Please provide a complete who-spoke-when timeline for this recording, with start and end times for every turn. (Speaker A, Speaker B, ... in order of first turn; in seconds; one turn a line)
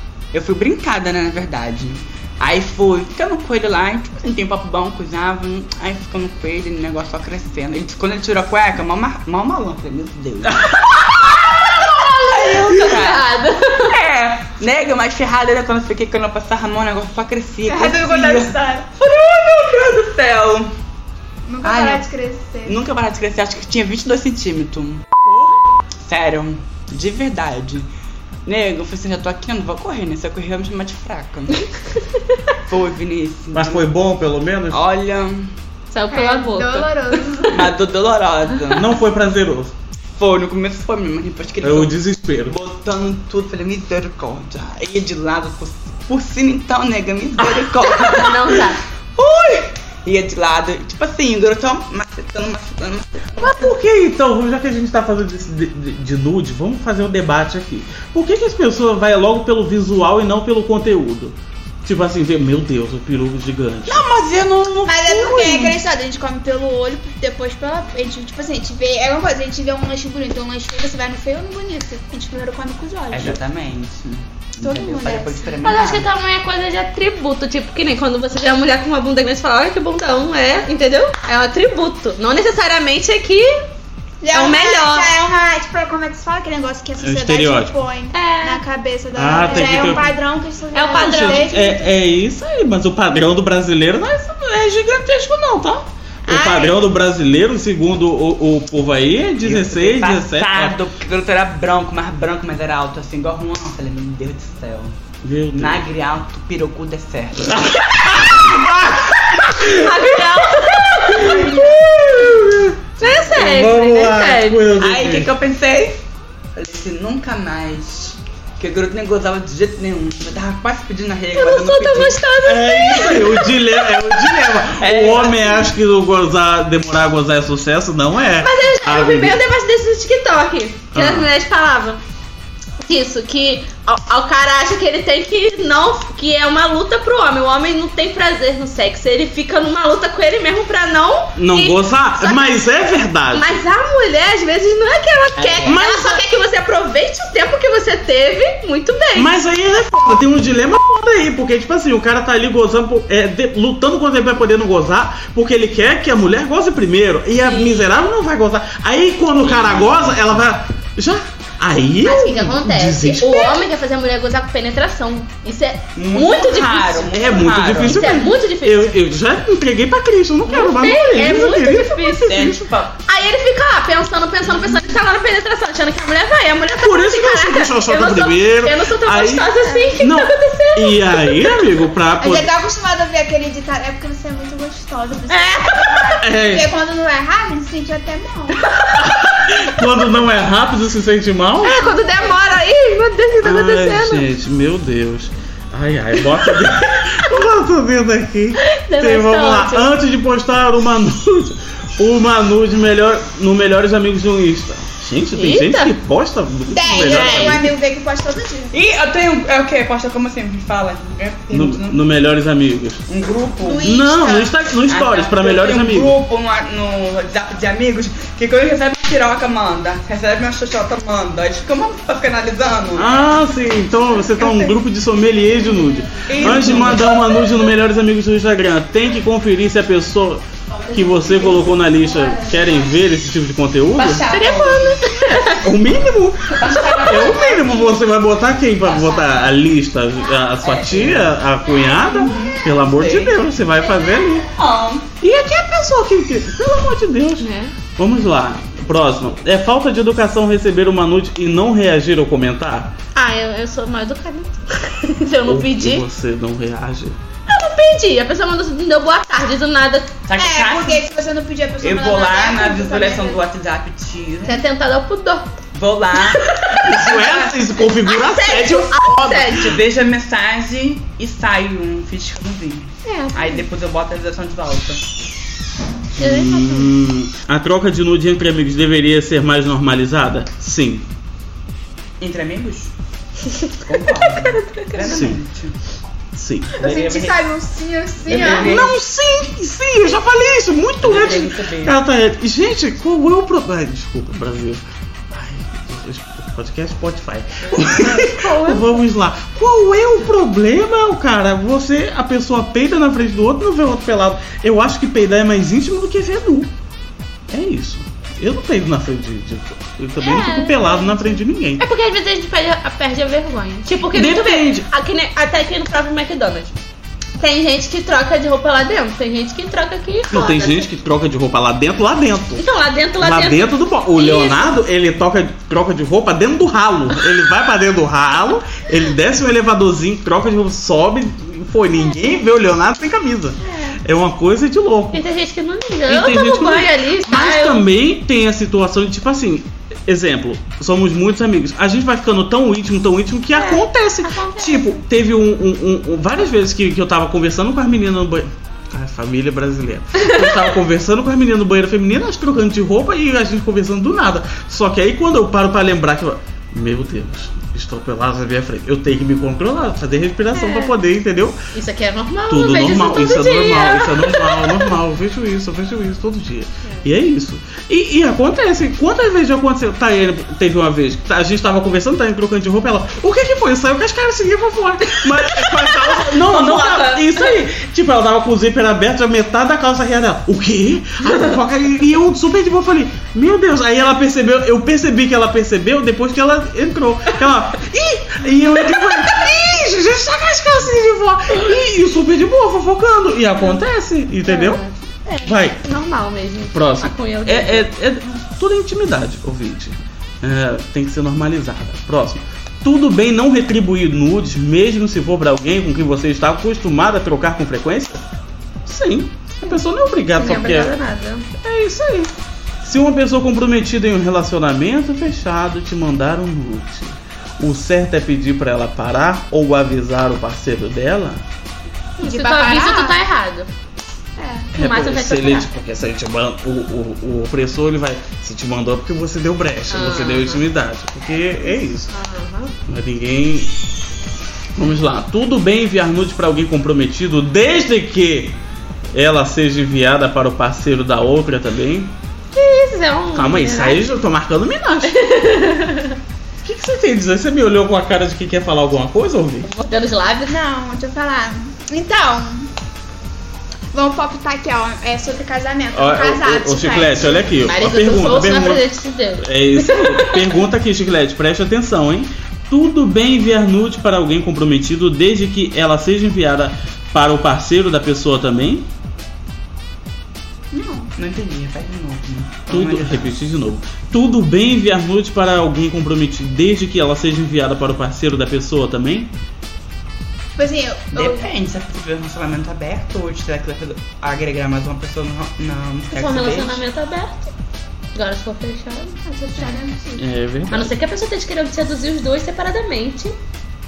Speaker A: 0.3-10.7
Speaker B: 10.5-10.8
Speaker C: 10.9-14.0
Speaker A: 11.7-20.7
Speaker D: 17.7-18.9
Speaker D: 21.5-22.8
Speaker A: 21.6-22.1
Speaker A: 22.6-25.2
Speaker B: 25.3-25.6
Speaker A: 26.0-27.9
Speaker A: 28.5-31.7
Speaker A: 32.6-33.9
Speaker B: 33.5-34.8
Speaker A: 34.7-35.5
Speaker C: 35.9-37.5
Speaker D: 36.1-37.7
Speaker A: 37.5-39.0
Speaker B: 38.7-39.7
Speaker A: 40.2-53.7
Speaker B: 41.6-42.6
Speaker C: 47.8-48.8
Speaker B: 53.4-64.0
Speaker A: 63.9-65.8
Speaker D: 64.9-73.4
Speaker A: 73.1-76.1
Speaker D: 74.6-75.5
Speaker C: 75.6-83.7
Speaker D: 84.2-91.8
Speaker C: 84.3-85.1
Speaker B: 87.0-87.8
Speaker C: 88.1-88.6
Speaker B: 89.2-90.2
Speaker C: 89.3-90.0
Speaker C: 90.7-91.7
Speaker B: 90.9-100.8
Speaker D: 96.3-96.8
Speaker A: 99.4-105.0
Speaker B: 105.2-105.8
Speaker A: 105.5-107.7
Speaker B: 107.5-115.3
Speaker C: 109.7-111.5
Speaker A: 111.1-111.7
Speaker C: 113.0-114.6
Speaker A: 114.8-116.0
Speaker A: 116.6-122.2
Speaker C: 121.3-124.1
Speaker B: 122.4-129.4
Speaker A: 124.8-125.7
Speaker C: 128.4-132.0
Speaker B: 130.9-131.3
Speaker C: 132.8-142.6
Speaker B: 141.4-143.5
Speaker C: 143.3-149.3
Speaker A: 145.4-145.8
Speaker B: 145.6-146.2
Speaker B: 149.2-163.6
Speaker C: 157.4-157.9
Speaker A: 159.4-160.5
Speaker C: 162.0-167.1
Speaker A: 166.0-168.2
Speaker B: 167.1-172.6
Speaker C: 167.8-168.9
Speaker C: 170.5-172.5
Speaker A: 172.2-173.0
Speaker C: 173.1-181.7
Speaker B: 176.7-182.5
Speaker D: 182.2-188.7
Speaker C: 185.3-186.2
Speaker B: 186.2-186.7
Speaker C: 188.6-189.1
Speaker B: 188.9-191.9
Speaker C: 191.6-194.2
Speaker D: 191.8-192.6
Speaker B: 193.4-207.7
Speaker C: 198.6-199.9
Speaker C: 205.3-205.9
Speaker D: 206.7-208.7
Speaker A: 207.0-207.6
Speaker A: 208.7-212.0
Speaker B: 211.5-213.0
Speaker A: 213.1-213.9
Speaker D: 213.6-214.5
Speaker B: 213.8-216.2
Speaker A: 214.9-223.2
Speaker B: 222.9-234.3
Speaker A: 224.4-224.7
Speaker A: 226.3-227.1
Speaker A: 233.9-235.1
Speaker C: 234.2-235.7
Speaker B: 235.4-244.5
Speaker A: 236.5-237.6
Speaker C: 236.6-237.7
Speaker A: 238.8-239.2
Speaker A: 240.6-241.3
Speaker A: 242.0-243.4
Speaker A: 244.5-245.1
Speaker B: 245.2-253.0
Speaker C: 247.4-247.8
Speaker C: 253.1-256.1
Speaker B: 255.4-257.2
Speaker C: 257.5-260.2
Speaker A: 260.3-261.0
Speaker D: 260.4-263.4
Speaker A: 261.8-264.6
Speaker C: 264.4-265.5
Speaker A: 265.7-267.5
Speaker C: 266.3-266.9
Speaker B: 266.8-269.8
Speaker C: 268.1-269.8
Speaker A: 269.5-275.0
Speaker C: 273.1-273.6
Speaker B: 276.2-281.1
Speaker C: 276.2-276.9
Speaker A: 282.2-282.9
Speaker C: 283.5-285.1
Speaker A: 283.8-285.8
Speaker B: 285.0-285.4
Speaker B: 286.3-286.8
Speaker A: 286.8-287.4
Speaker D: 286.8-288.9
Speaker A: 288.2-288.9
Speaker B: 288.3-306.7
Speaker A: 291.0-292.0
Speaker C: 297.8-299.0
Speaker B: 307.5-311.8
Speaker C: 310.2-316.8
Speaker B: 314.1-314.9
Speaker C: 317.4-320.9
Speaker B: 320.3-322.6
Speaker C: 322.6-324.7
Speaker B: 323.2-335.3
Speaker C: 333.6-334.0
Speaker C: 335.1-337.8
Speaker B: 336.1-361.6
Speaker C: 343.6-345.0
Speaker C: 360.6-360.9
Speaker C: 361.7-364.9
Speaker B: 362.5-394.8
Speaker C: 375.6-377.4
Speaker C: 394.4-397.9
Speaker B: 395.4-395.8
Speaker B: 396.7-408.2
Speaker B: 408.9-410.9
Speaker C: 410.4-411.5
Speaker B: 411.6-412.3
Speaker B: 412.8-421.4
Speaker C: 422.2-423.7
Speaker D: 422.2-423.2
Speaker D: 424.4-424.7
Speaker C: 424.7-425.7
Speaker B: 424.8-432.1
Speaker C: 429.9-430.6
Speaker C: 432.1-432.7
Speaker B: 432.9-433.8
Speaker B: 434.8-438.6
Speaker B: 439.1-442.1
Speaker C: 442.5-444.0
Speaker B: 443.3-445.2
Speaker C: 445.1-446.2
Speaker B: 446.6-449.7
Speaker C: 449.6-450.6
Speaker D: 450.5-452.7
Speaker D: 453.9-457.5
Speaker B: 455.9-458.8
Speaker C: 457.6-460.4
Speaker B: 459.4-468.9
Speaker D: 470.7-471.1
Speaker A: 471.2-473.3
Speaker B: 472.7-479.3
Speaker D: 480.6-481.5
Speaker A: 481.1-486.8
Speaker C: 486.1-487.5
Speaker C: 488.1-489.2
Speaker D: 489.2-490.2
Speaker B: 490.2-491.0
Speaker C: 490.7-493.4